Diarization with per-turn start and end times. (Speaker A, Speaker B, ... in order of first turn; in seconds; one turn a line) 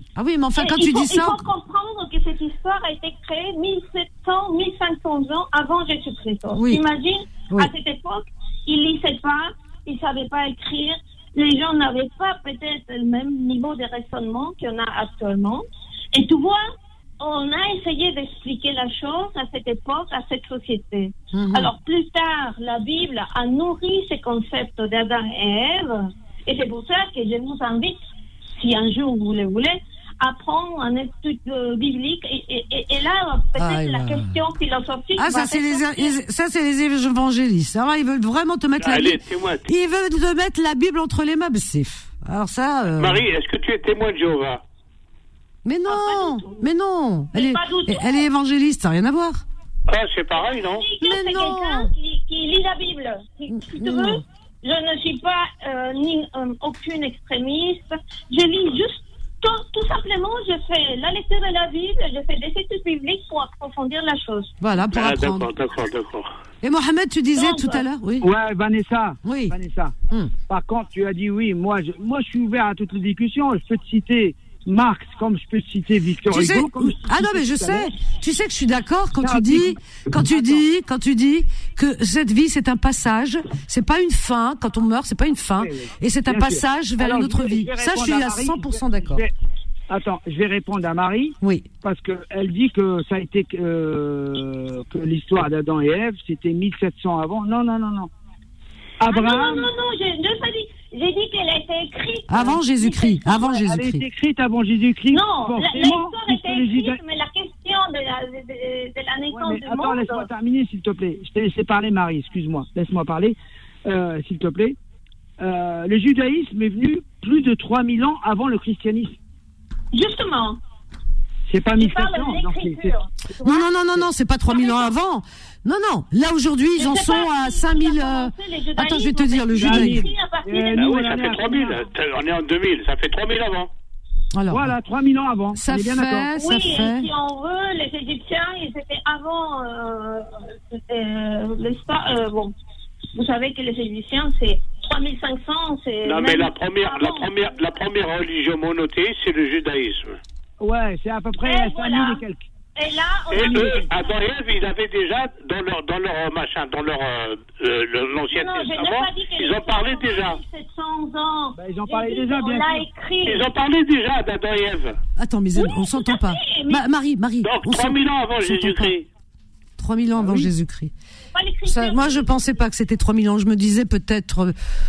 Speaker A: 0.2-1.4
Speaker B: 0.6-16.6
Speaker A: 6.5-6.8
Speaker B: 17.2-28.0
Speaker A: 21.3-21.7
Speaker B: 28.6-36.1
Speaker A: 33.6-34.3
Speaker A: 35.2-43.2
Speaker C: 38.8-39.7
Speaker C: 43.0-44.6
Speaker A: 45.6-49.4
Speaker B: 45.9-46.6
Speaker B: 47.3-48.3
Speaker C: 49.9-50.9
Speaker B: 50.3-64.5
Speaker A: 51.0-51.9
Speaker A: 53.5-54.2
Speaker A: 64.6-65.5
Speaker C: 64.9-66.3
Speaker A: 66.6-68.3
Speaker B: 67.3-67.8
Speaker D: 68.2-69.9
Speaker A: 69.2-69.5
Speaker D: 70.5-77.9
Speaker A: 76.3-89.2
Speaker D: 79.2-80.6
Speaker D: 85.6-89.3
Speaker D: 89.9-98.1
Speaker A: 91.4-91.7
Speaker D: 99.0-99.7
Speaker B: 99.1-103.5
Speaker A: 102.3-104.0
Speaker D: 103.5-107.0
Speaker B: 105.1-110.3
Speaker D: 109.3-114.8
Speaker D: 115.4-119.2
Speaker B: 119.9-120.6
Speaker D: 121.5-122.9
Speaker B: 121.7-123.7
Speaker A: 123.4-130.1
Speaker B: 124.5-124.9
Speaker B: 126.8-131.4
Speaker D: 129.5-131.8
Speaker C: 130.8-133.7
Speaker A: 134.3-134.7
Speaker D: 134.5-136.3
Speaker A: 135.5-137.1
Speaker B: 136.3-142.5
Speaker B: 143.1-147.6
Speaker C: 146.0-150.2
Speaker D: 150.6-152.4
Speaker B: 151.4-152.2
Speaker B: 152.8-154.2
Speaker C: 153.3-160.4
Speaker D: 153.4-153.8
Speaker B: 158.3-163.5
Speaker D: 161.6-162.8
Speaker C: 163.2-164.9
Speaker A: 165.2-168.9
Speaker B: 165.5-166.8
Speaker C: 167.4-169.1
Speaker A: 169.8-170.9
Speaker D: 170.2-170.5
Speaker B: 171.3-172.3
Speaker A: 171.7-174.5